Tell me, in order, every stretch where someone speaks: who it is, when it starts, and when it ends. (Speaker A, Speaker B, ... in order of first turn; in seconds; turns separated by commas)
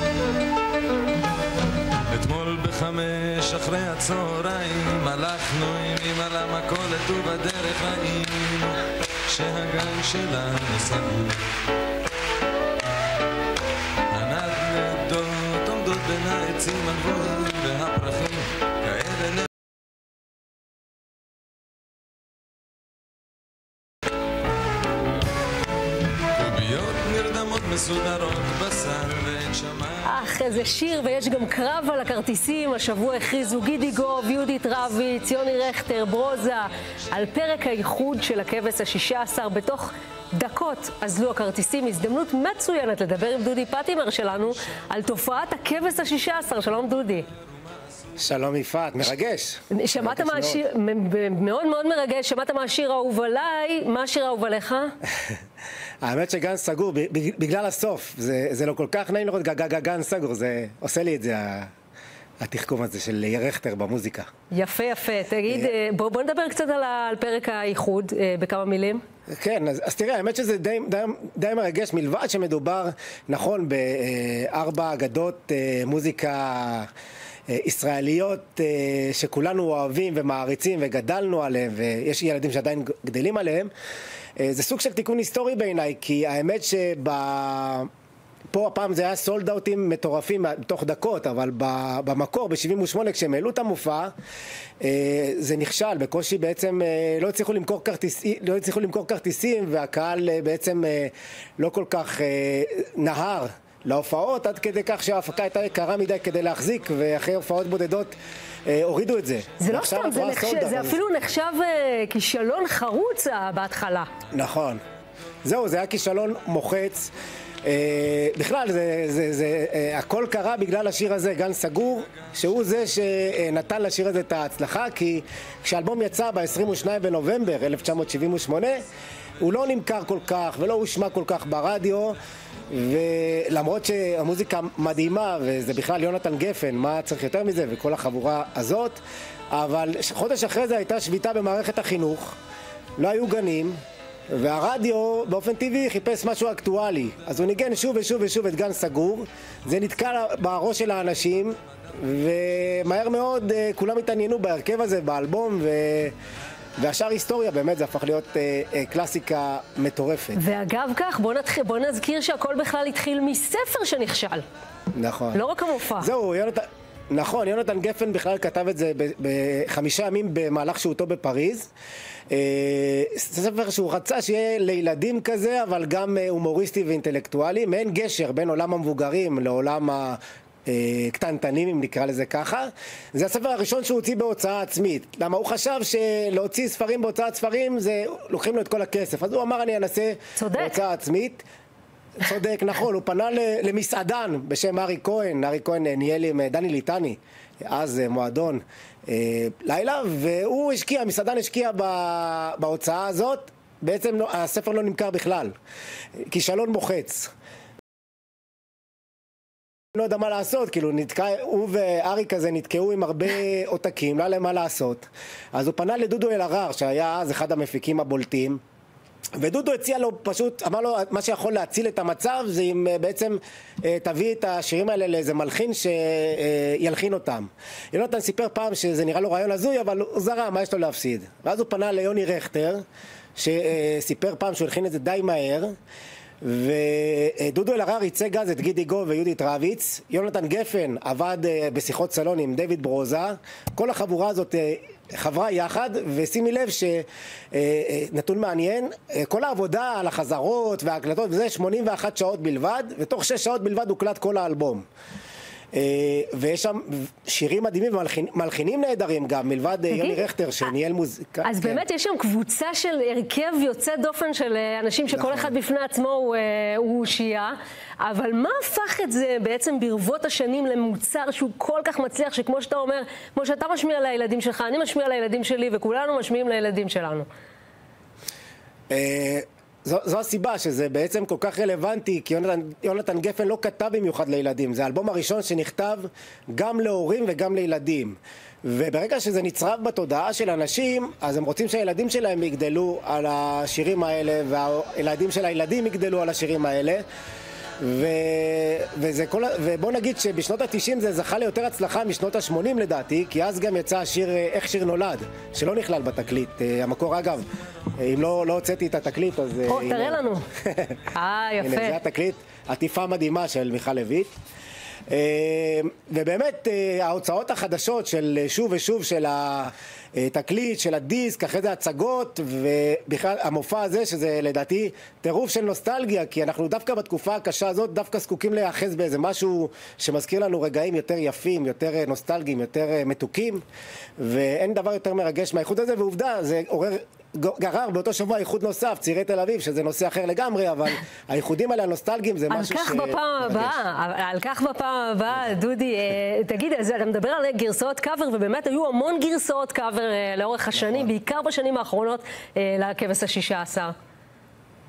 Speaker A: 2.1-11.5, Speaker A: 14.1-19.5, Speaker A: 26.4-30.1, Speaker B: 30.0-47.3, Speaker C: 48.2-50.6, Speaker B: 49.7-54.9, Speaker C: 56.0-61.7, Speaker C: 62.4-64.3, Speaker B: 64.5-69.0, Speaker C: 65.5-65.7, Speaker C: 69.3-76.9, Speaker C: 77.5-83.7, Speaker C: 84.4-87.9, Speaker C: 88.5-94.1, Speaker C: 94.8-111.0, Speaker B: 109.6-114.1, Speaker C: 114.3-114.8, Speaker C: 115.4-117.1, Speaker C: 117.6-128.8, Speaker C: 129.4-132.2, Speaker C: 132.7-142.4, Speaker C: 143.0-143.8, Speaker C: 144.3-156.1, Speaker C: 156.8-160.4, Speaker B: 160.3-164.4, Speaker C: 164.9-165.4, Speaker B: 165.3-166.1, Speaker C: 166.0-171.7, Speaker C: 172.3-191.4, Speaker B: 190.3-190.7, Speaker C: 192.2-205.5, Speaker C: 206.2-207.3, Speaker C: 209.9-218.6, Speaker C: 219.4-232.8, Speaker C: 233.3-235.7, Speaker C: 236.4-254.8, Speaker C: 255.7-261.8, Speaker B: 259.9-260.2, Speaker B: 261.4-277.3, Speaker C: 265.1-265.5, Speaker C: 278.9-297.0, Speaker C: 297.8-307.4, Speaker C: 308.0-311.0, Speaker B: 309.7-310.4, Speaker B: 311.1-312.0, Speaker C: 311.6-314.3, Speaker C: 315.1-333.6, Speaker C: 334.2-343.8, Speaker B: 342.5-353.9, Speaker C: 350.8-351.1